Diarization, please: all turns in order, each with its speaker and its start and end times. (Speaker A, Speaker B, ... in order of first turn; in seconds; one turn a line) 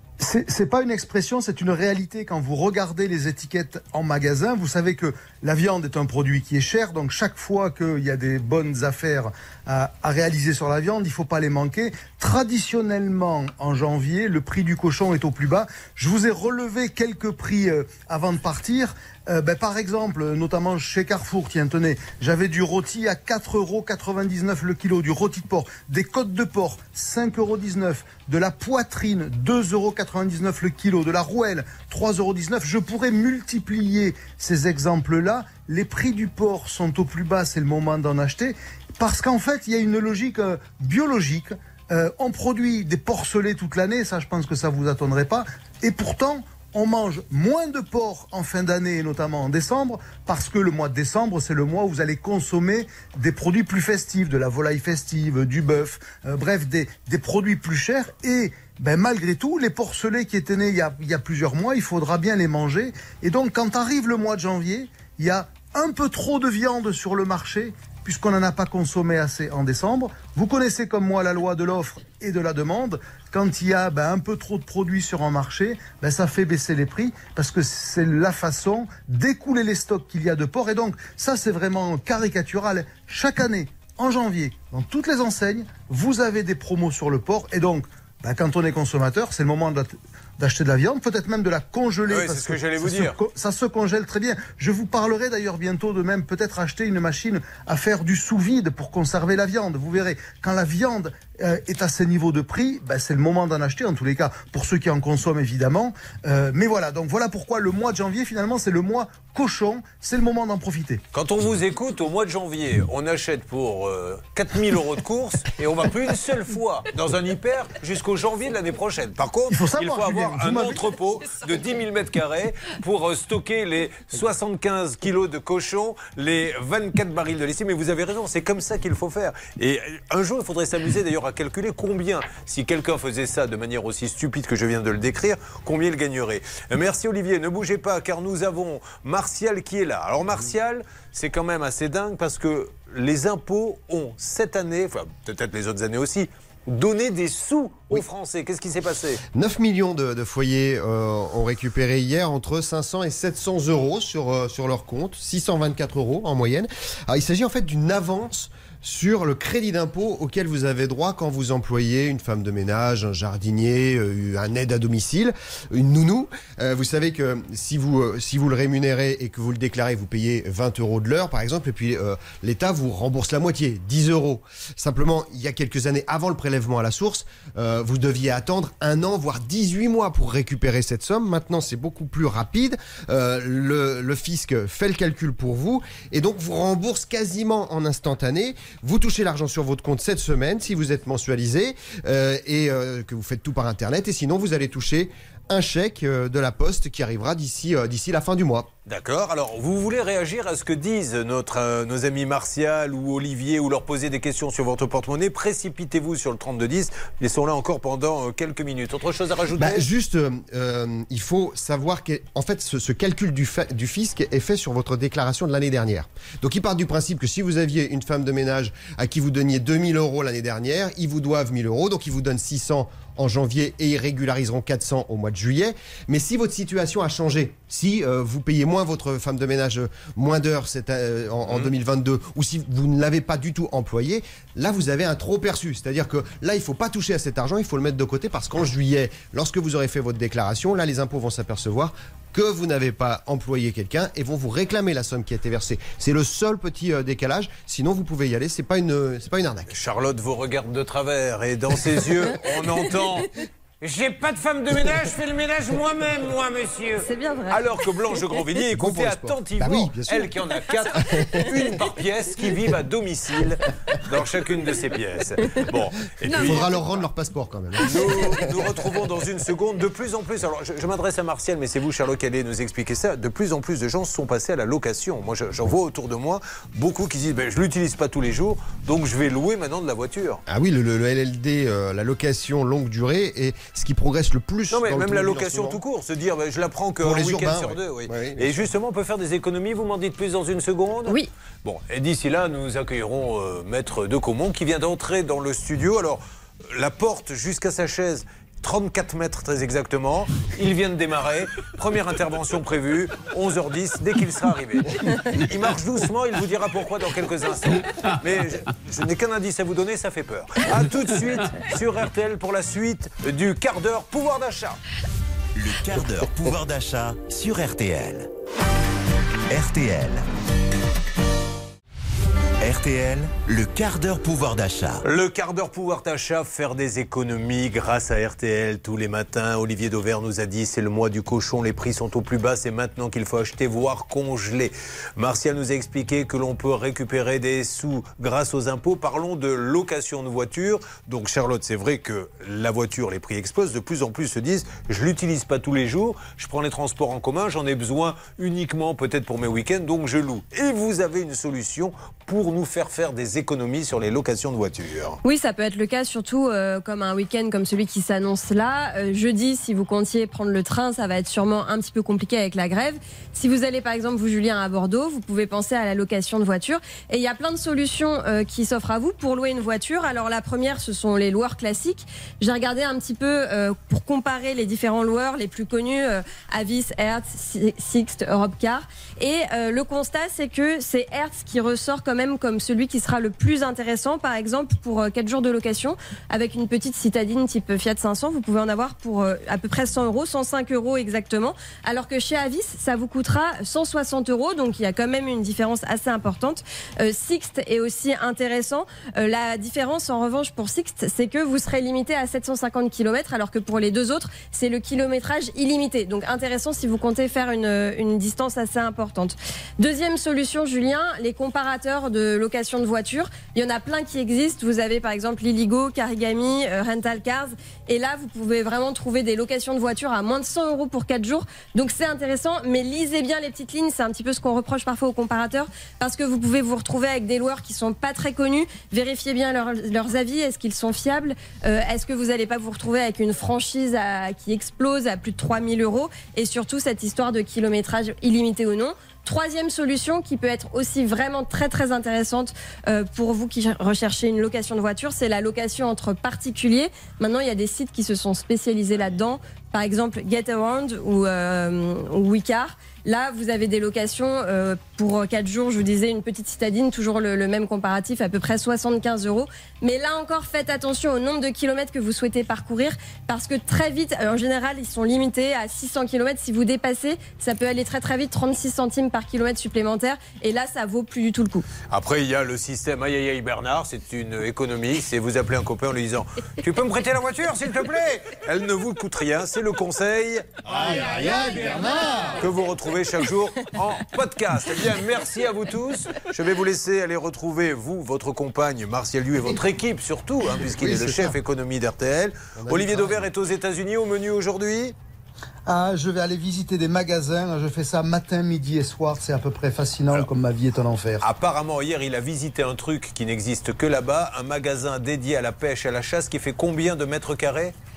Speaker A: 0.2-111.0
Speaker B: 92.1-93.2
Speaker B: 111.1-149.2
Speaker A: 119.5-120.8
Speaker C: 149.3-198.7
Speaker B: 198.8-209.8
Speaker C: 209.6-249.7
Speaker B: 231.5-231.7
Speaker B: 249.7-253.3
Speaker B: 253.8-267.1
Speaker D: 257.0-257.6
Speaker C: 258.7-261.8
Speaker C: 266.2-268.7
Speaker B: 267.8-280.4
Speaker C: 280.5-285.8
Speaker B: 284.7-314.8
Speaker C: 287.0-288.6
Speaker E: 315.5-318.3
Speaker E: 319.5-320.2
Speaker E: 322.6-325.0
Speaker B: 325.0-355.2
Speaker D: 355.2-471.6
Speaker B: 471.9-481.2
Speaker A: 480.6-482.3
Speaker B: 482.3-494.9
Speaker A: 490.8-491.3
Speaker A: 495.7-501.2
Speaker B: 501.2-507.7